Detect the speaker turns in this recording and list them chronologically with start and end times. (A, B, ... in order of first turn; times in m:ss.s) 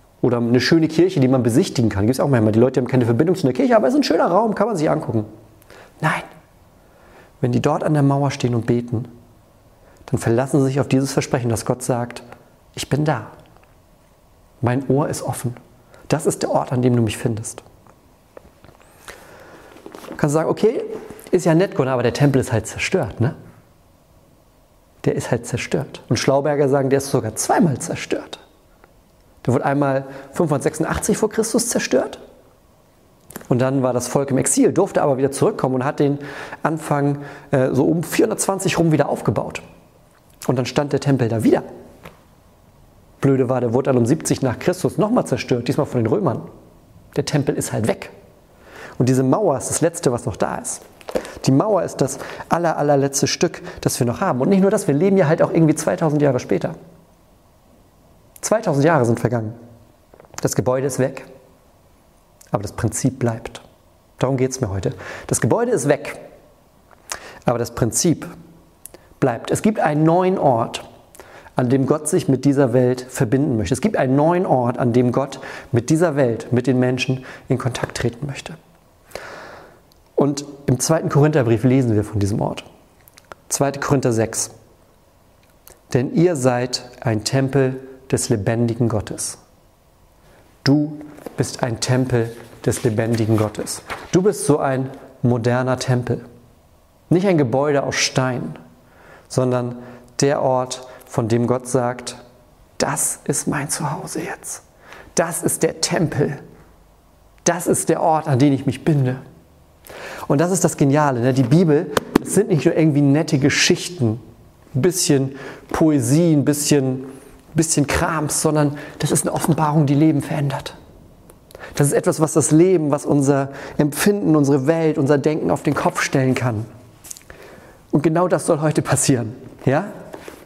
0:00.2-0:05.3 A
0:06.0-0:06.3 A
0:07.4-0:09.1 A
0:10.1-0:13.3 A
0:14.6-0:15.6 A
0:16.1-0:17.6 A
0:20.2-0:23.4 A
0:25.0-0:28.4 A
0:29.4-0:32.2 A
0:33.5-0:39.6 A
0:40.5-0:41.6 A
0:43.2-0:46.5 A
0:47.1-0:48.1 A
0:49.0-0:50.8 A
0:51.4-0:56.8 A
0:58.4-0:59.6 A
1:00.4-1:01.3 A
1:02.5-1:03.6 A
1:04.2-1:06.2 A
1:07.5-1:08.3 A
1:09.2-1:10.8 A
1:11.6-1:18.6 A
1:20.2-1:22.6 A
1:23.5-1:24.5 A
1:25.9-1:29.4 A
1:30.6-1:36.2 A
1:37.1-1:38.6 A
1:39.3-1:42.2 A
1:42.8-1:44.6 A
1:45.2-1:46.4 A
1:47.4-1:49.2 A
1:50.3-1:54.2 A
1:54.8-2:00.8 A
2:01.8-2:06.7 A
2:07.9-2:09.9 A